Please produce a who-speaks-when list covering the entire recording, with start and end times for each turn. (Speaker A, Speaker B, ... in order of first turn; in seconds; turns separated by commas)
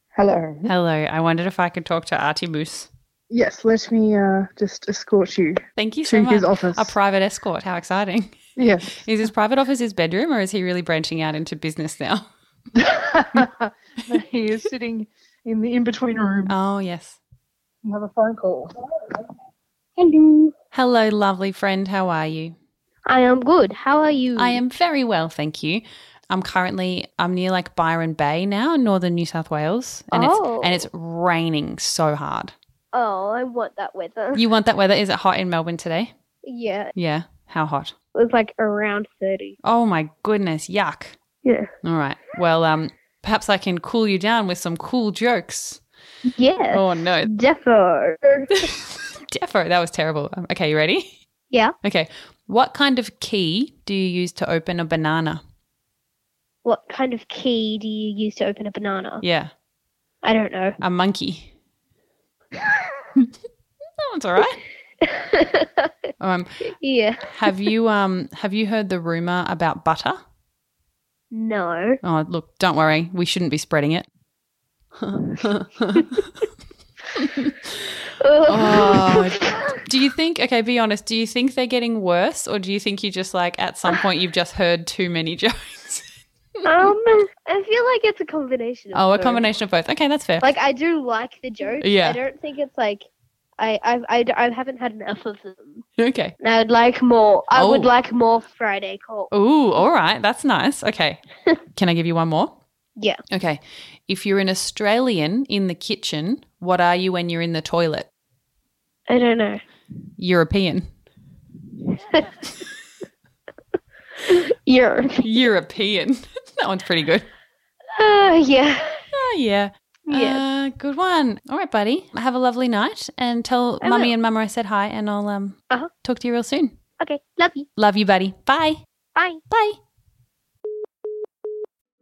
Speaker A: 0.1-0.7, Speaker B: 0.7-2.9, Speaker A: 3.3-7.0, Speaker B: 5.8-8.3, Speaker A: 8.6-9.0, Speaker B: 9.0-12.2, Speaker A: 12.8-16.6, Speaker B: 16.5-17.2, Speaker A: 17.8-18.7, Speaker C: 20.0-20.5, Speaker B: 20.7-22.6, Speaker C: 23.1-24.6, Speaker B: 24.4-32.5, Speaker C: 30.1-30.9, Speaker C: 32.9-34.5, Speaker B: 34.3-36.1, Speaker C: 36.4-36.9, Speaker B: 37.0-37.9, Speaker C: 38.1-39.6, Speaker B: 39.6-41.2, Speaker C: 41.4-41.7, Speaker B: 41.8-45.8, Speaker C: 46.3-48.5, Speaker B: 46.7-47.3, Speaker B: 48.6-51.2, Speaker B: 51.8-55.4, Speaker C: 56.6-59.2, Speaker B: 59.2-59.5, Speaker C: 60.2-60.8, Speaker B: 60.8-61.5, Speaker B: 64.0-64.6, Speaker C: 65.0-65.9, Speaker B: 66.2-66.7, Speaker C: 66.7-67.7, Speaker B: 67.2-70.2, Speaker C: 71.3-72.0, Speaker B: 72.0-74.1, Speaker B: 75.0-76.3, Speaker B: 77.1-77.9, Speaker C: 78.2-79.8, Speaker B: 78.5-86.0, Speaker C: 86.6-89.5, Speaker B: 88.9-90.5, Speaker C: 90.4-93.0, Speaker B: 91.8-92.2, Speaker C: 93.6-95.8, Speaker B: 96.0-96.3, Speaker C: 96.4-99.3, Speaker B: 97.5-97.9, Speaker B: 99.3-101.2, Speaker B: 101.7-102.6, Speaker B: 103.3-108.1, Speaker C: 109.1-109.6, Speaker B: 110.2-110.9, Speaker C: 111.9-112.4, Speaker C: 114.2-115.3, Speaker B: 115.2-117.3, Speaker C: 118.0-119.0, Speaker B: 119.1-126.7, Speaker C: 120.1-120.4, Speaker C: 123.8-124.1, Speaker C: 127.0-127.7, Speaker B: 127.8-128.8, Speaker C: 129.2-129.4, Speaker B: 129.5-129.8